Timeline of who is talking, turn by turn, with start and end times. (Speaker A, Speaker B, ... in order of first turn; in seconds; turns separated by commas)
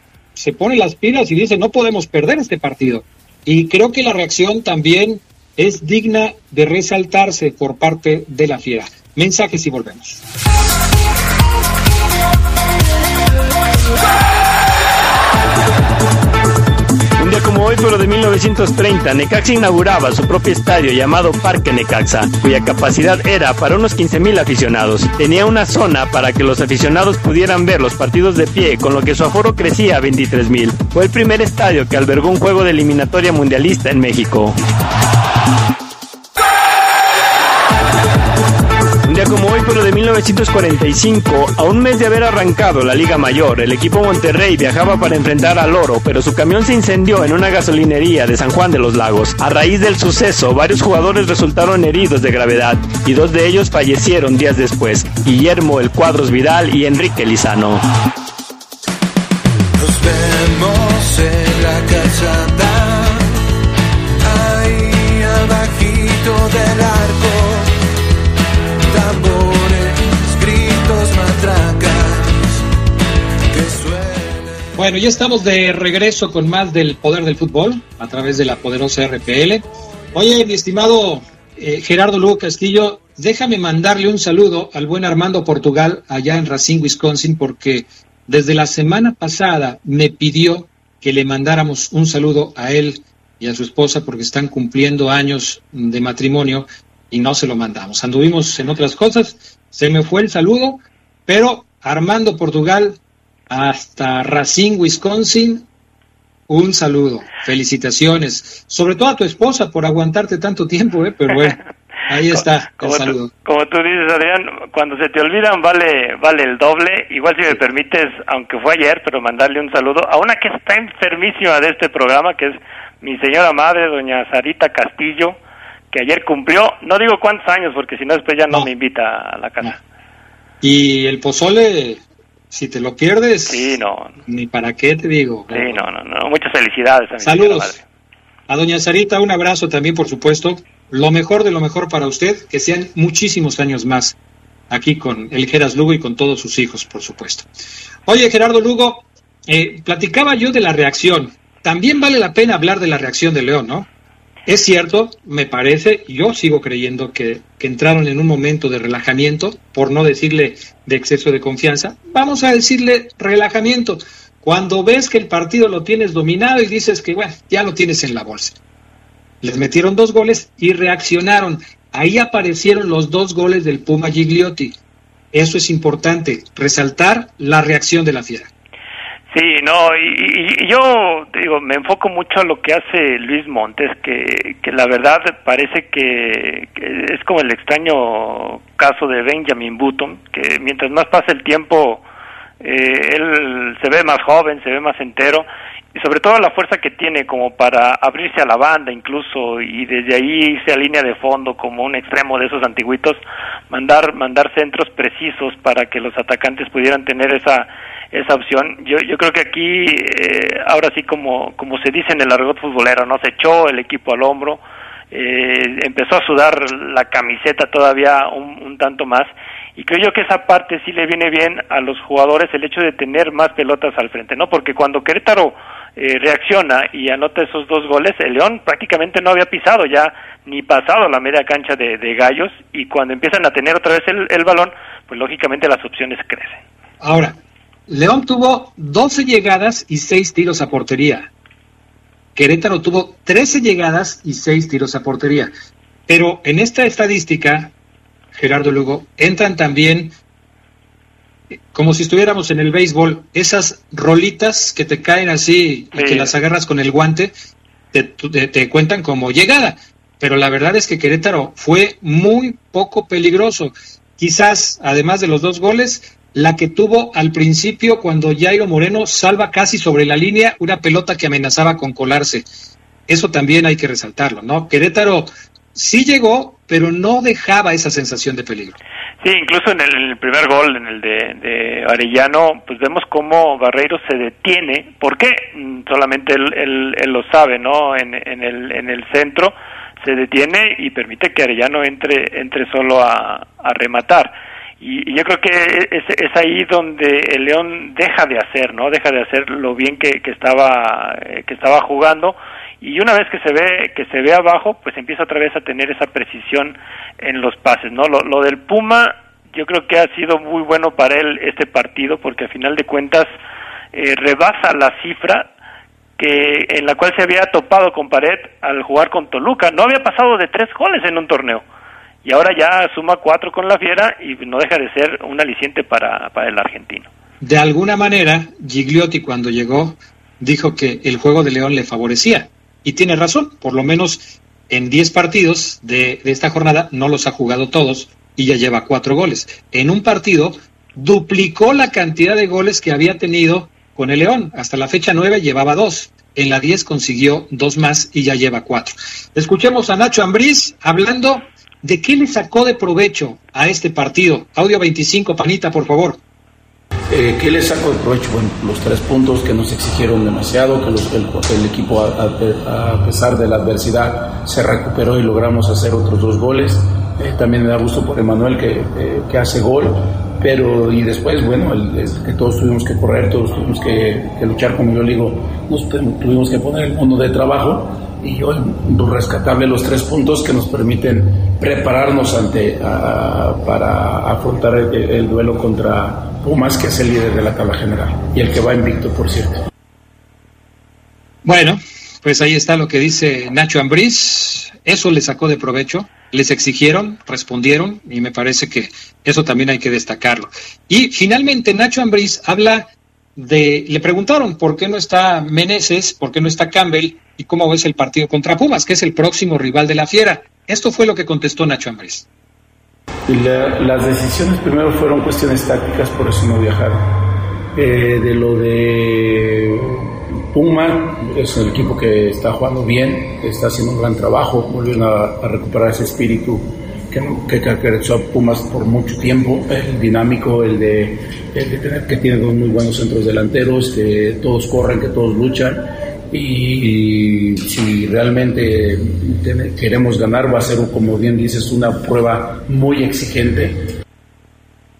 Speaker A: 0.3-10.2, Speaker B: 17.2-34.6, Speaker B: 39.1-57.8, Speaker C: 59.8-63.3, Speaker C: 64.2-67.8, Speaker C: 68.9-72.6, Speaker C: 73.5-74.7, Speaker A: 74.8-103.0, Speaker A: 103.5-105.7, Speaker A: 106.5-113.3, Speaker D: 112.3-125.4, Speaker D: 125.9-129.8, Speaker A: 130.6-135.9, Speaker D: 133.5-134.1, Speaker D: 135.5-137.8, Speaker A: 137.2-137.8, Speaker A: 138.5-144.2, Speaker A: 144.7-147.5, Speaker A: 148.1-153.9, Speaker A: 154.4-168.6, Speaker A: 169.4-174.8, Speaker A: 175.3-178.5, Speaker D: 179.3-192.0, Speaker D: 192.6-236.6, Speaker A: 237.0-241.3, Speaker A: 242.3-245.5, Speaker A: 246.1-247.7, Speaker A: 248.3-250.2, Speaker A: 251.7-257.3, Speaker D: 255.9-256.3, Speaker A: 257.9-272.5, Speaker A: 273.1-278.8, Speaker D: 279.2-313.3, Speaker D: 313.9-315.5, Speaker D: 316.2-321.6, Speaker D: 322.2-327.1, Speaker A: 327.4-356.2, Speaker E: 357.1-389.6, Speaker A: 391.4-412.3, Speaker E: 413.3-417.2, Speaker E: 417.7-443.9